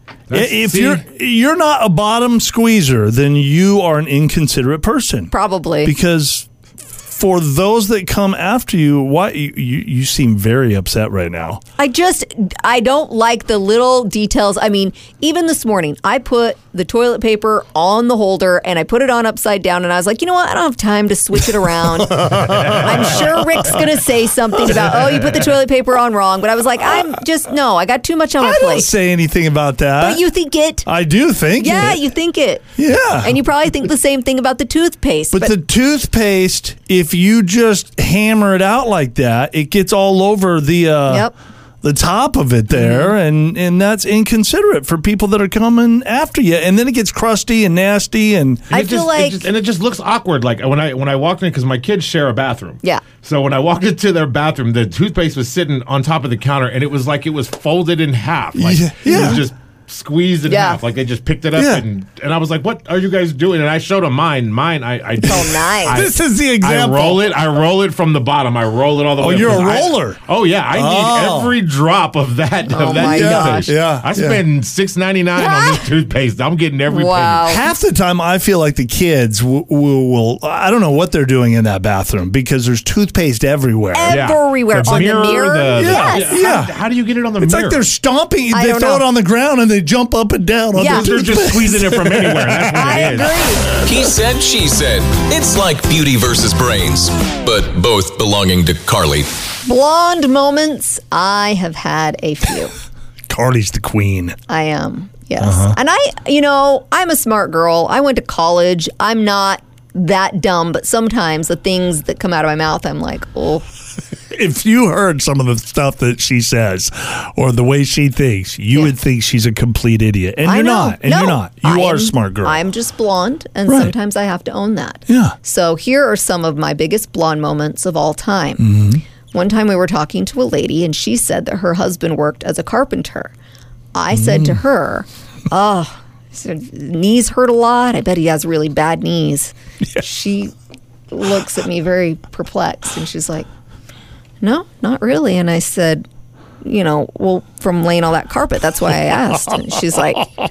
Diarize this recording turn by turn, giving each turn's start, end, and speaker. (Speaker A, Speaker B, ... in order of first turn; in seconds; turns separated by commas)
Speaker A: 0.3-1.0, Speaker B: 0.3-6.5, Speaker C: 5.3-5.9, Speaker B: 7.0-11.6, Speaker C: 11.8-28.9, Speaker B: 21.6-23.7, Speaker B: 24.8-25.2, Speaker B: 28.4-30.2, Speaker C: 30.0-30.9, Speaker B: 30.8-32.1, Speaker C: 31.6-35.6, Speaker B: 32.8-33.4, Speaker B: 35.3-41.3, Speaker C: 41.1-41.3, Speaker B: 41.8-48.7, Speaker C: 42.7-43.1, Speaker A: 48.7-77.5, Speaker C: 48.7-49.5, Speaker B: 58.5-59.5, Speaker C: 59.0-59.4, Speaker C: 60.5-60.8, Speaker B: 61.5-61.8, Speaker C: 65.2-66.0, Speaker B: 65.9-67.4, Speaker B: 69.2-71.5, Speaker C: 72.7-73.7, Speaker B: 72.8-74.4, Speaker C: 75.3-75.9, Speaker C: 76.9-77.7, Speaker B: 77.4-84.3, Speaker C: 83.9-86.4, Speaker A: 84.1-87.8, Speaker B: 85.7-86.8, Speaker B: 87.4-93.5, Speaker C: 88.5-89.0, Speaker C: 90.8-91.1, Speaker A: 90.8-93.5, Speaker C: 92.7-93.8, Speaker D: 93.8-99.3, Speaker C: 99.6-102.7, Speaker B: 103.3-104.4, Speaker C: 104.5-113.7, Speaker B: 105.4-105.8, Speaker B: 114.3-122.6, Speaker C: 120.4-128.7, Speaker B: 123.7-123.9, Speaker B: 125.1-125.3, Speaker B: 128.6-129.0, Speaker C: 129.3-133.3, Speaker C: 133.9-140.5, Speaker B: 134.1-134.6, Speaker C: 141.1-143.5, Speaker C: 144.4-146.0, Speaker C: 146.6-150.3